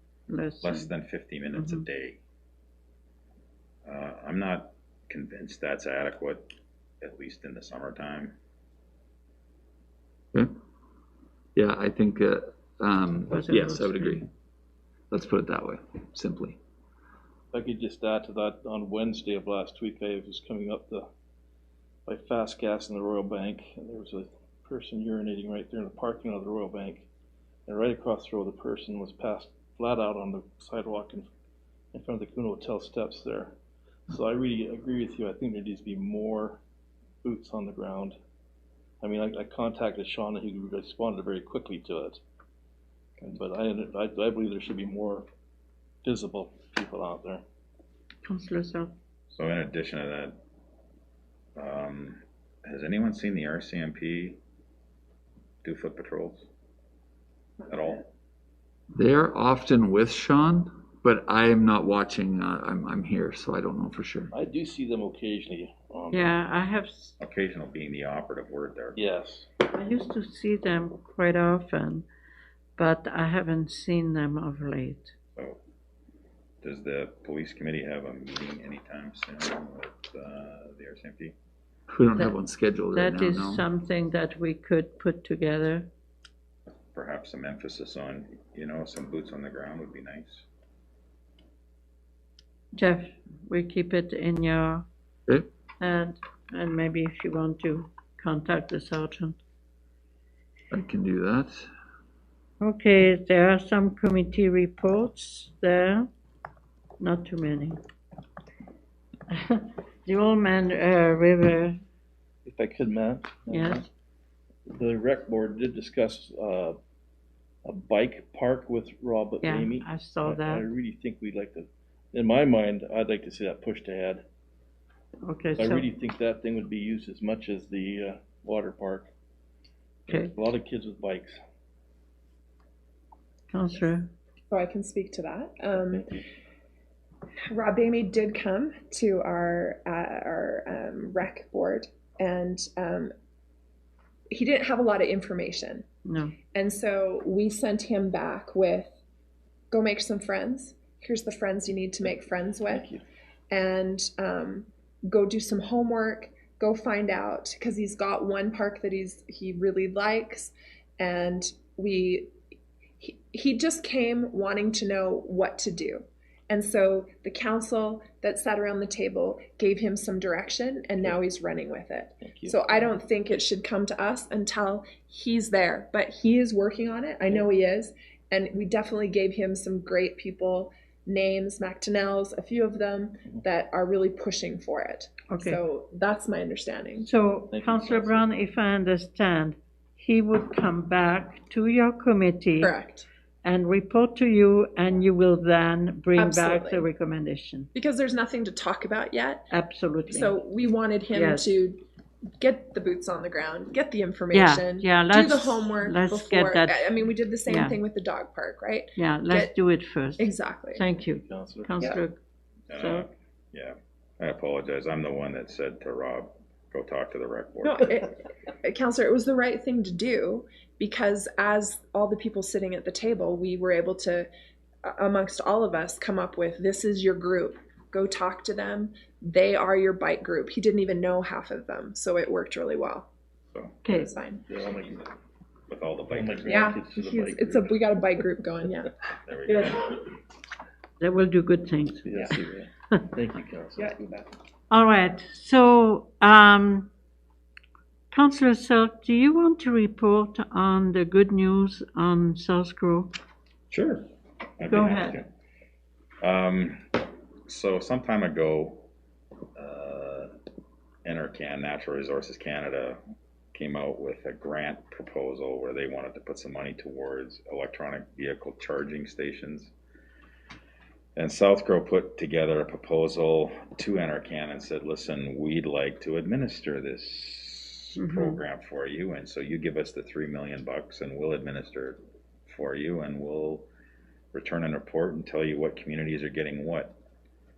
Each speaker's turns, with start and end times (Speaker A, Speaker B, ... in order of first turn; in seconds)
Speaker A: 0.3-0.9, 1.5-1.8, 13.3-14.2, 48.2-48.9, 66.1-67.2, 69.6-72.1, 72.8-75.1, 82.9-85.9, 92.7-94.8, 95.8-99.4, 102.6-106.1, 107.0-107.8, 109.3-111.8, 113.5-113.9, 119.4-120.7, 125.2-125.9, 130.1-130.3, 133.5-134.1, 146.0-146.3, 185.3-185.6, 187.0-192.7, 193.4-197.7, 199.5-200.3, 201.1-201.5, 204.3-206.9, 207.4-207.8, 208.9-212.2, 212.7-213.1, 233.8-234.1, 241.0-242.3, 244.7-246.9, 248.1-253.1, 254.7-255.2, 278.0-278.4
Speaker B: 0.6-2.2, 3.8-8.3, 49.3-50.4, 51.5-54.4, 55.6-56.5, 57.7-58.1, 67.2-69.0, 76.6-81.3, 86.9-90.5, 212.7-218.0, 233.5-233.8, 235.7-236.7, 239.2-240.1, 253.7-254.1, 254.6-255.3, 256.2-258.8, 259.6-260.3, 261.0-263.0, 263.5-269.7, 271.1-283.7, 284.3-287.0
Speaker C: 11.6-14.3, 15.1-16.6, 58.9-64.3, 81.9-83.6, 100.7-101.7
Speaker D: 17.5-21.1, 22.1-27.1, 27.7-31.3, 31.9-33.5, 34.1-36.6, 37.2-38.1, 39.0-42.2, 43.2-45.3, 46.0-47.4, 64.3-66.4, 69.0-69.5, 112.5-113.9, 114.7-116.8, 117.6-124.2, 125.6-129.1, 130.1-131.4, 135.8-136.2, 152.7-153.0, 172.2-172.7, 187.5-188.2, 211.2-211.7, 234.5-235.0, 236.1-237.7, 242.1-243.9
Speaker E: 134.5-136.0, 137.5-143.1, 144.3-145.8, 146.5-148.9, 149.7-152.9, 153.5-162.3, 163.0-187.1, 192.6-193.1, 196.2-196.8, 197.7-199.5, 200.1-201.8, 202.4-209.5, 210.2-210.8, 217.6-224.3, 224.8-233.1, 233.9-234.4, 236.5-238.9, 243.8-244.3